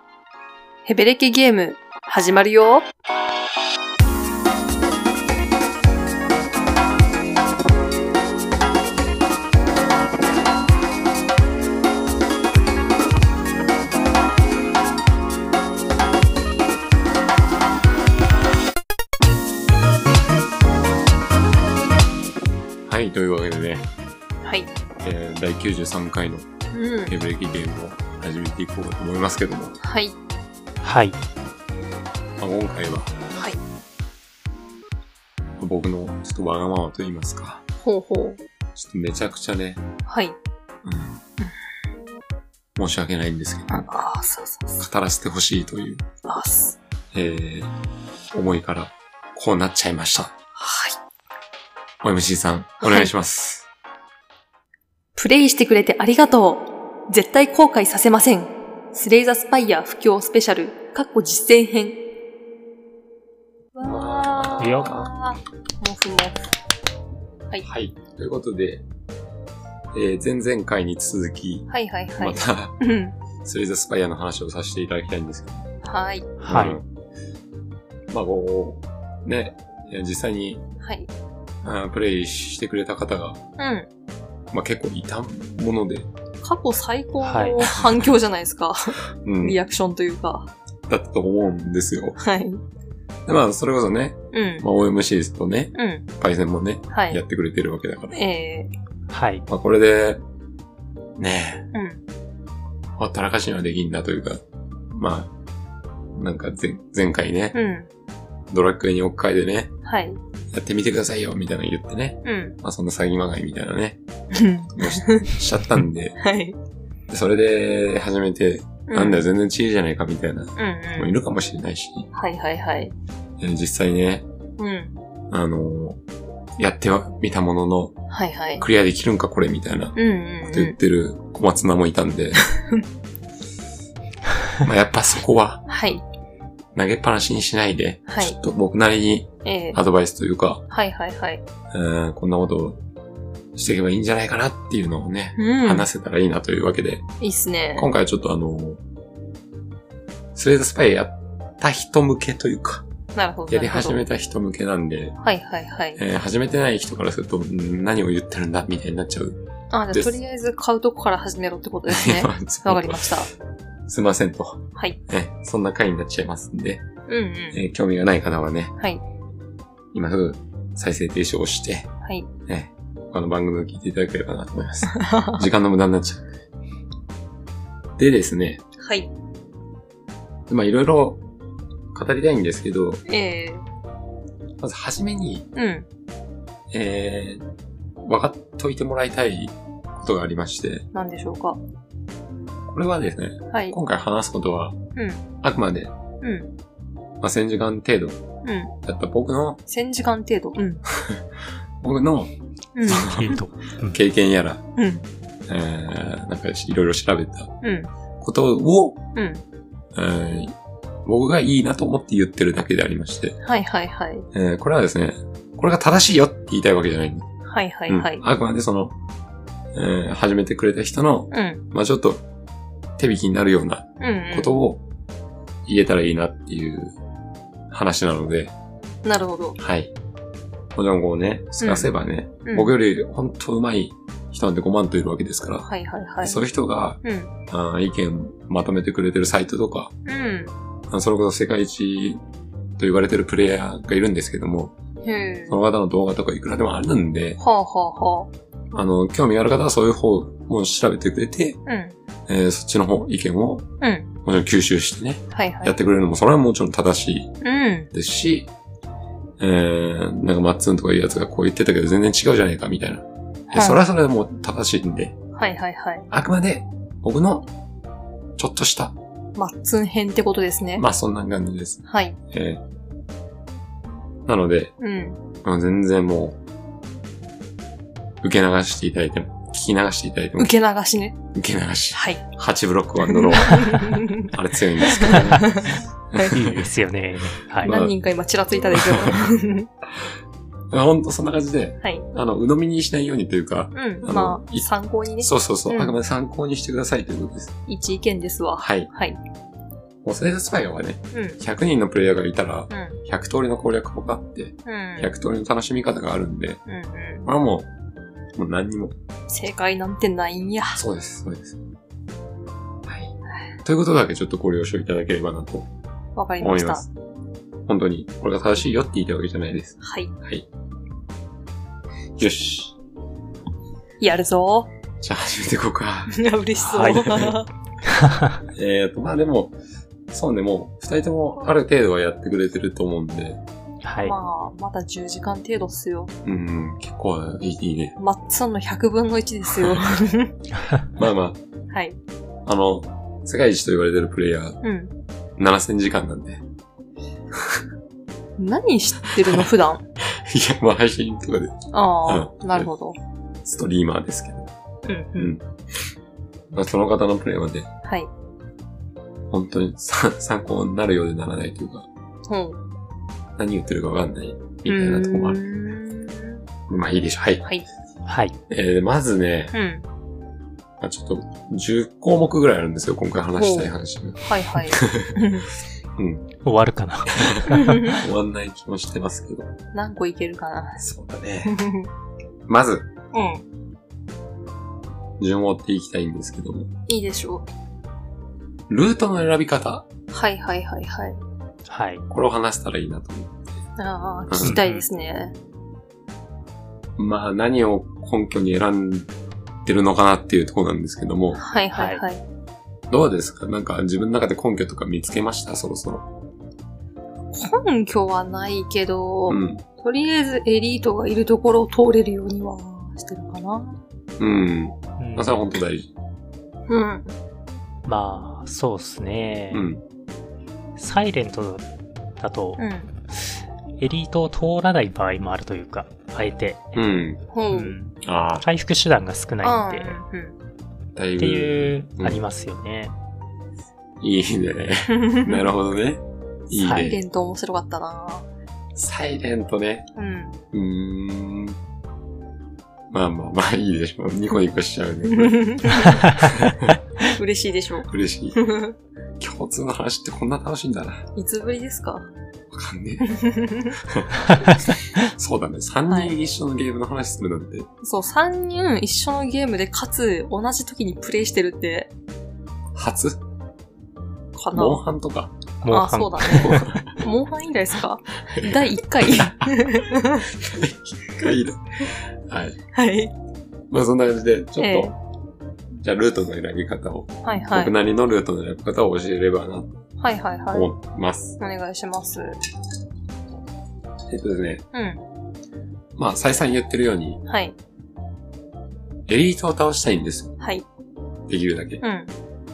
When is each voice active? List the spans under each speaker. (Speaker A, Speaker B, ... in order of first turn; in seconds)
Speaker A: 0.8-2.9, 24.4-24.7, 26.7-27.1, 29.8-30.1, 33.3-33.6, 37.8-38.4, 40.0-40.4, 43.7-44.9, 46.2-46.8, 50.5-51.0, 52.8-53.1, 55.1-62.1, 63.7-66.4, 71.7-73.2, 75.8-76.3, 80.8-81.1, 83.6-83.9, 86.4-90.5, 92.2-92.6, 94.3-94.7, 95.7-96.1, 96.9-97.2, 98.1-98.7, 101.7-102.0, 107.5-107.9, 109.8-110.2, 112.2-112.6, 114.3-115.3, 116.2-116.6, 118.9-119.3, 120.5-121.1, 122.1-122.9, 124.6-125.0, 128.1-128.7, 129.9-130.8, 132.5-132.8, 135.7-136.0, 138.1-138.4, 139.4-139.8, 140.7-141.4, 145.4-145.9, 147.2-147.9, 153.1-154.0, 155.2-156.0, 159.7-163.3, 167.1-167.6, 168.8-169.0, 172.0-172.3, 175.0-175.4, 178.8-179.1, 183.1-183.6, 185.5-185.9, 190.9-191.6, 193.5-193.8, 194.9-195.2, 196.2-196.5, 198.4-198.7, 199.7-200.8, 202.7-203.2, 204.8-205.1, 207.6-207.9, 209.1-209.4, 213.4-214.3, 217.4-218.2, 221.3-221.6, 224.0-224.6, 229.0-229.6, 231.6-231.9, 232.4-232.7, 235.6-236.4, 237.0-237.3, 240.0-240.5, 245.0-245.6, 247.4-248.3, 251.7-251.9, 253.8-254.1, 255.3-255.7, 257.4-257.9, 263.5-263.8, 265.3-266.1, 269.4-270.8, 271.9-272.2, 274.8-275.2, 280.4-281.2, 281.9-282.2, 283.0-286.5, 287.6-289.7, 293.7-295.9, 297.7-299.2, 301.1-301.4, 302.7-303.0, 304.6-305.1, 306.7-307.3, 309.3-310.8, 316.1-316.8, 319.8-320.1, 324.0-324.7, 326.1-327.5, 334.0-336.1, 338.0-340.4, 341.7-342.0, 344.6-344.9, 348.4-349.8, 351.7-353.0, 354.8-355.3, 357.8-358.1, 362.3-362.6, 364.6-366.4, 369.5-369.9, 373.4-375.5, 377.5-378.0, 379.7-380.8, 381.4-381.9, 383.1-383.4, 386.9-387.5, 390.1-391.2, 393.8-395.3, 401.4-402.2, 407.3-413.8, 416.7-417.1, 422.6-422.9, 427.3-427.8, 429.4-430.4, 434.9-435.4, 436.7-438.3, 439.9-440.4, 445.1-446.1, 447.1-448.7, 451.1-452.1, 453.1-453.8, 455.9-456.1, 457.8-461.9, 464.3-464.8, 465.7-470.3, 472.7-473.1, 474.6-474.9, 477.2-477.7, 480.0-480.7, 481.4-482.4, 484.7-485.0, 487.2-487.6, 490.4-490.6, 491.8-492.1
Speaker B: 22.9-23.9, 25.0-26.5, 27.1-29.8, 32.4-33.2, 35.6-37.6, 38.7-39.8, 40.8-41.2, 42.8-43.9, 44.8-46.0, 47.1-47.7, 48.3-50.3, 52.0-53.7, 63.8-65.1, 67.6-68.8, 69.9-72.8, 73.4-75.7, 76.5-76.8, 78.1-80.6, 81.6-83.4, 84.5-86.1, 89.2-89.6, 90.9-92.2, 93.2-98.2, 99.5-100.2, 101.2-101.7, 103.0-105.3, 106.1-107.6, 108.5-109.7, 110.5-114.0, 114.7-116.2, 117.1-122.1, 123.4-124.2, 125.3-126.0, 126.6-128.0, 128.6-132.5, 134.6-135.6, 136.7-140.6, 141.7-142.8, 143.5-147.1, 147.8-148.8, 150.3-152.8, 153.5-155.2, 155.9-160.2, 161.9-163.2, 163.9-166.8, 167.5-168.7, 169.9-171.9, 172.4-176.3, 178.0-178.6, 180.5-181.2, 181.9-183.0, 184.6-185.5, 186.7-187.4, 188.0-190.8, 192.7-194.8, 195.4-195.9, 197.2-198.2, 198.8-199.6, 200.9-201.2, 201.8-202.3, 202.8-204.6, 205.5-207.5, 208.2-209.0, 209.9-213.4, 214.3-217.3, 217.9-218.9, 219.7-222.2, 223.0-224.8, 225.7-226.9, 227.7-228.5, 229.6-229.9, 230.7-235.7, 236.2-239.9, 240.9-242.2, 242.8-244.8, 245.5-247.4, 248.7-251.6, 252.3-253.7, 254.2-257.3, 257.9-258.5, 259.4-265.2, 266.1-267.5, 268.4-268.9, 270.8-272.6, 274.3-274.7, 275.4-276.4, 278.2-280.5, 281.3-286.6, 287.6-287.9, 288.7-289.2, 290.7-297.6, 298.6-298.9, 300.0-306.6, 307.2-307.7, 308.4-308.9, 310.7-311.6, 312.9-315.7, 316.4-316.9, 317.6-320.5, 322.2-322.8, 325.0-326.2, 326.9-327.3, 328.5-329.6, 330.1-333.4, 336.2-337.9, 340.9-341.4, 342.4-344.6, 345.4-346.4, 350.0-352.7, 353.4-354.5, 355.1-355.4, 356.5-357.7, 359.3-361.9, 363.4-365.4, 366.7-367.5, 368.5-369.5, 370.8-375.1, 376.0-376.3, 377.2-379.5, 380.8-381.6, 382.5-382.9, 385.2-386.7, 388.7-389.9, 392.1-393.6, 394.3-394.6, 397.0-399.1, 399.6-401.4, 402.9-406.1, 409.3-409.6, 414.2-415.9, 419.5-419.8, 426.7-427.2, 428.0-428.4, 430.9-432.2, 434.0-437.0, 438.7-439.9, 440.5-441.6, 442.9-446.8, 447.9-448.4, 449.2-451.1, 452.5-453.1, 453.8-457.7, 462.7-463.2, 464.5-465.3, 466.2-466.8, 468.3-469.5, 470.3-472.6, 473.7-475.0, 475.8-479.7, 480.5-481.4, 484.1-484.6, 485.9-487.2, 489.1-490.4, 491.3-491.8
Speaker C: 30.8-31.2, 64.6-64.9, 76.4-76.8, 87.2-87.6, 99.1-99.5, 203.0-204.0, 286.3-287.8, 326.6-327.3, 327.9-328.4, 333.8-334.1, 368.1-368.3, 376.4-377.9, 391.7-392.0, 394.4-394.9, 401.7-402.0, 415.0-415.4, 417.8-419.7, 420.8-421.7, 422.2-422.6, 423.1-426.8, 427.5-430.0, 431.2-432.9, 436.6-436.9, 465.6-466.8